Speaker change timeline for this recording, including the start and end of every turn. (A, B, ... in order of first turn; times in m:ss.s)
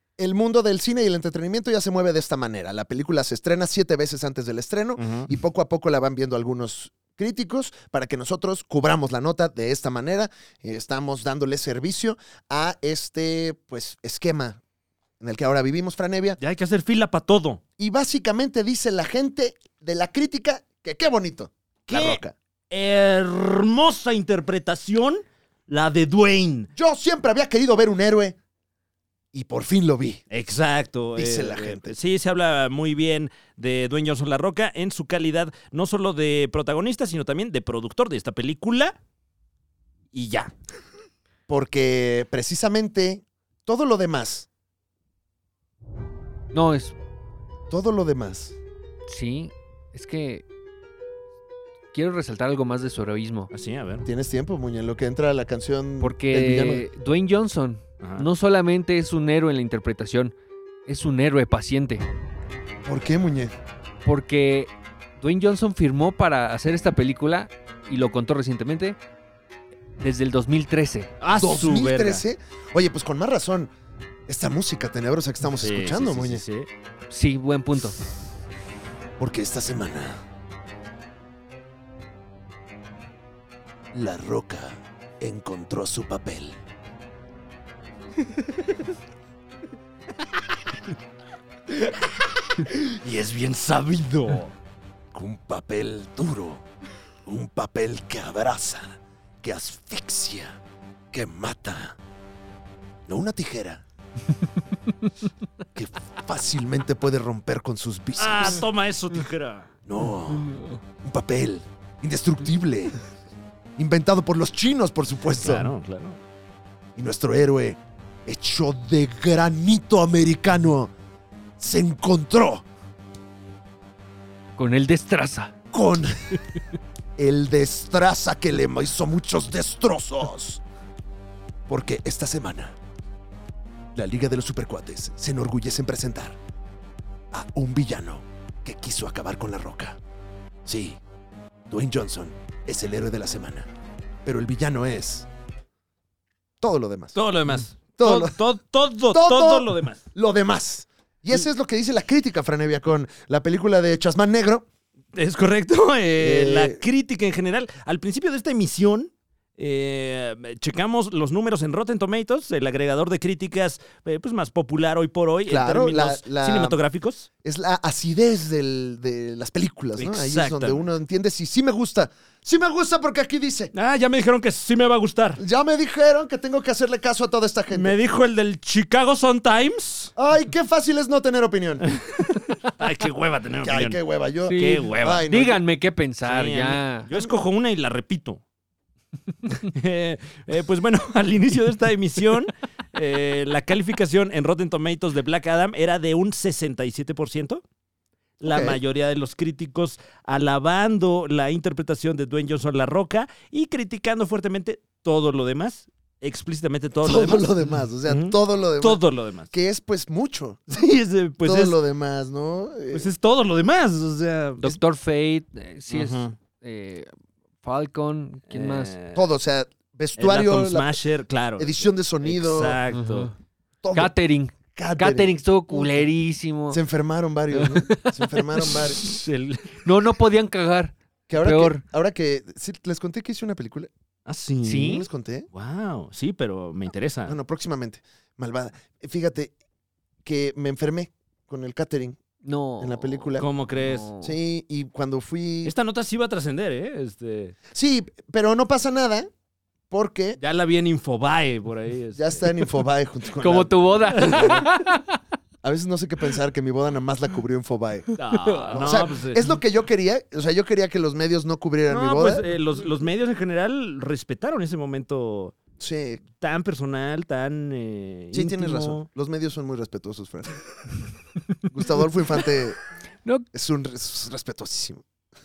0:00.2-0:14.6 A
0:05.0-0:05.3 B
0:15.2-0:16.4 A
0:16.4-0:17.6 B
0:17.8-0:22.3 A
0:21.9-0:26.7 B
0:26.8-0:28.4 A
0:29.3-0:30.2 A
0:30.3-0:39.0 B
0:31.2-0:31.9 A
0:40.1-0:40.5 B
0:41.5-0:44.5 A
0:46.5-0:46.9 C
0:47.7-0:48.5 A
0:49.1-0:50.4 C
0:51.9-0:53.5 C
0:53.5-0:54.0 B
0:54.0-0:56.8 A
0:56.0-1:00.3 C
0:58.0-0:58.3 B
1:00.9-1:02.0 C
1:02.8-1:03.5 A
1:04.0-1:09.0 C
1:10.0-1:11.1 C
1:11.2-1:12.2 B
1:11.3-1:13.7 A
1:14.3-1:16.4 A
1:15.6-1:16.7 B
1:17.1-1:18.0 C
1:19.2-1:20.2 A
1:23.9-1:26.6 A
1:32.6-1:34.5 B
1:35.1-1:36.6 A
1:37.2-1:40.6 A
1:41.1-1:42.0 A
1:43.1-1:43.8 A
1:45.7-1:48.6 A
1:48.2-1:49.7 B
1:49.8-1:53.0 A
1:53.8-1:55.7 A
1:55.4-1:56.2 B
1:57.0-2:00.9 A
2:01.6-2:02.6 A
2:04.6-2:05.5 C
2:05.7-2:06.2 A
2:07.2-2:10.6 A
2:11.7-2:12.8 A
2:13.9-2:16.4 A
2:17.3-2:20.0 A
2:20.6-2:21.0 A
2:21.7-2:23.7 A
2:24.2-2:25.3 A
2:26.6-2:27.2 A
2:27.1-2:30.0 B
2:28.0-2:28.4 A
2:29.1-2:34.6 A
2:35.1-2:47.3 B
2:36.2-2:36.8 A
2:45.5-2:46.8 A
2:47.4-2:53.7 A
2:50.0-2:50.8 B
2:53.7-2:55.4 B
2:55.4-2:58.0 A
2:57.7-3:00.1 B
3:00.2-3:01.9 A
3:02.0-3:04.0 B
3:03.6-3:05.6 A
3:04.5-3:07.1 C
3:04.5-3:05.3 B
3:06.2-3:08.4 B
3:09.5-3:17.6 B
3:18.4-3:27.5 B
3:18.4-3:18.8 A
3:27.0-3:30.8 A
3:28.0-3:29.5 B
3:30.7-3:31.8 B
3:31.4-3:33.1 A
3:32.9-3:34.8 B
3:34.6-3:37.1 C
3:35.9-3:36.3 B
3:37.6-3:38.9 C
3:38.5-3:39.2 B
3:39.1-3:40.9 A
3:40.2-3:43.3 B
3:41.6-3:42.8 A
3:42.9-3:43.3 C
3:43.8-3:44.1 A
3:43.9-3:46.8 C
3:44.7-3:46.0 A
3:46.7-3:49.0 A
3:47.5-3:48.4 C
3:49.0-3:49.8 B
3:49.8-3:51.8 C
3:51.3-3:53.9 A
3:54.2-3:55.0 B
3:54.6-3:55.1 C
3:54.8-3:55.5 A
3:55.5-3:57.4 B
3:57.2-3:59.5 A
4:00.2-4:02.2 A
4:02.4-4:04.4 C
4:02.8-4:03.4 A
4:03.4-4:04.1 B
4:04.2-4:05.7 A
4:05.6-4:07.6 B
4:07.7-4:09.3 A
4:09.9-4:10.4 A
4:10.4-4:12.5 B
4:12.2-4:14.7 A
4:13.4-4:15.2 C
4:14.2-4:14.5 B
4:15.6-4:18.1 A
4:18.1-4:18.9 C
4:18.2-4:19.4 B
4:18.7-4:22.4 A
4:21.9-4:25.5 B
4:25.8-4:26.2 A
4:26.4-4:29.0 B
4:28.3-4:30.6 A
4:31.7-4:32.8 A
4:33.5-4:35.0 A